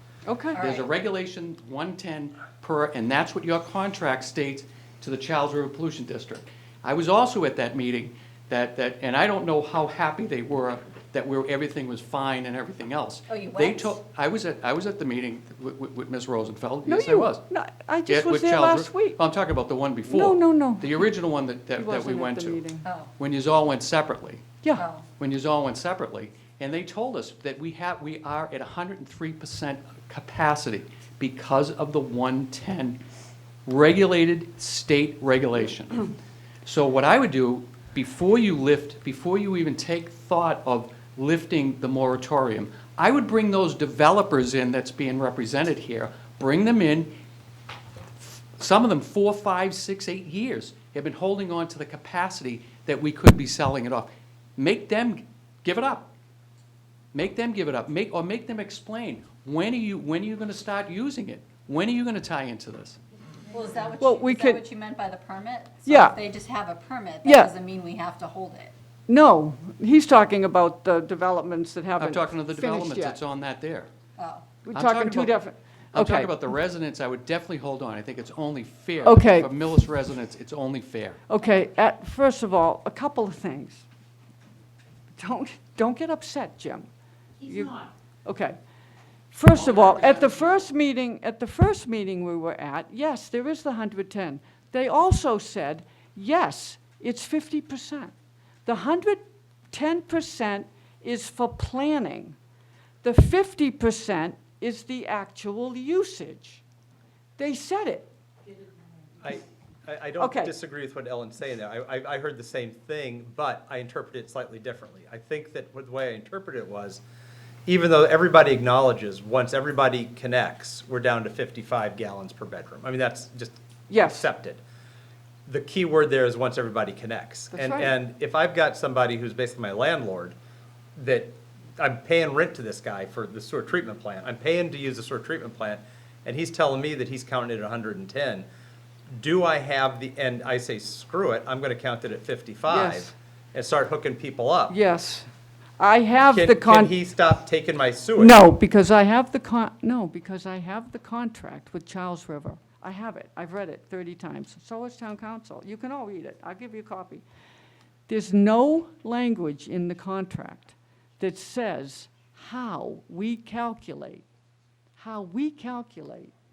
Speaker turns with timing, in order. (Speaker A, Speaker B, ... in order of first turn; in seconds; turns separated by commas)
Speaker A: 0.3-0.6, Speaker B: 0.5-0.9, Speaker C: 0.6-17.4, Speaker B: 13.3-14.0, Speaker A: 16.9-19.2, Speaker C: 18.1-22.6, Speaker A: 20.1-21.1, Speaker A: 21.8-22.9, Speaker B: 22.8-23.1, Speaker C: 23.2-24.5, Speaker B: 24.8-25.1, Speaker C: 25.2-33.0, Speaker C: 33.7-47.1, Speaker C: 48.2-56.1, Speaker C: 57.1-63.0, Speaker B: 63.5-68.7, Speaker A: 64.0-64.6, Speaker A: 65.8-66.2, Speaker A: 67.2-67.5, Speaker A: 69.1-73.2, Speaker C: 72.0-73.9, Speaker B: 74.2-74.5, Speaker A: 74.6-76.4, Speaker C: 74.7-75.4, Speaker C: 75.9-81.3, Speaker A: 79.0-79.5, Speaker A: 81.3-83.8, Speaker A: 85.2-86.9, Speaker A: 87.4-88.6, Speaker A: 89.3-98.1, Speaker C: 89.5-90.7, Speaker A: 98.7-102.4, Speaker A: 103.0-106.6, Speaker A: 107.4-108.1, Speaker D: 109.2-117.0, Speaker A: 110.2-110.5, Speaker D: 117.7-124.6, Speaker A: 123.9-124.3, Speaker D: 125.5-130.4, Speaker A: 127.5-127.9, Speaker D: 131.0-138.5, Speaker D: 139.2-144.8, Speaker A: 142.7-143.1, Speaker A: 144.7-146.9, Speaker D: 146.3-148.4, Speaker A: 148.2-157.2, Speaker A: 158.1-164.2, Speaker A: 165.0-166.3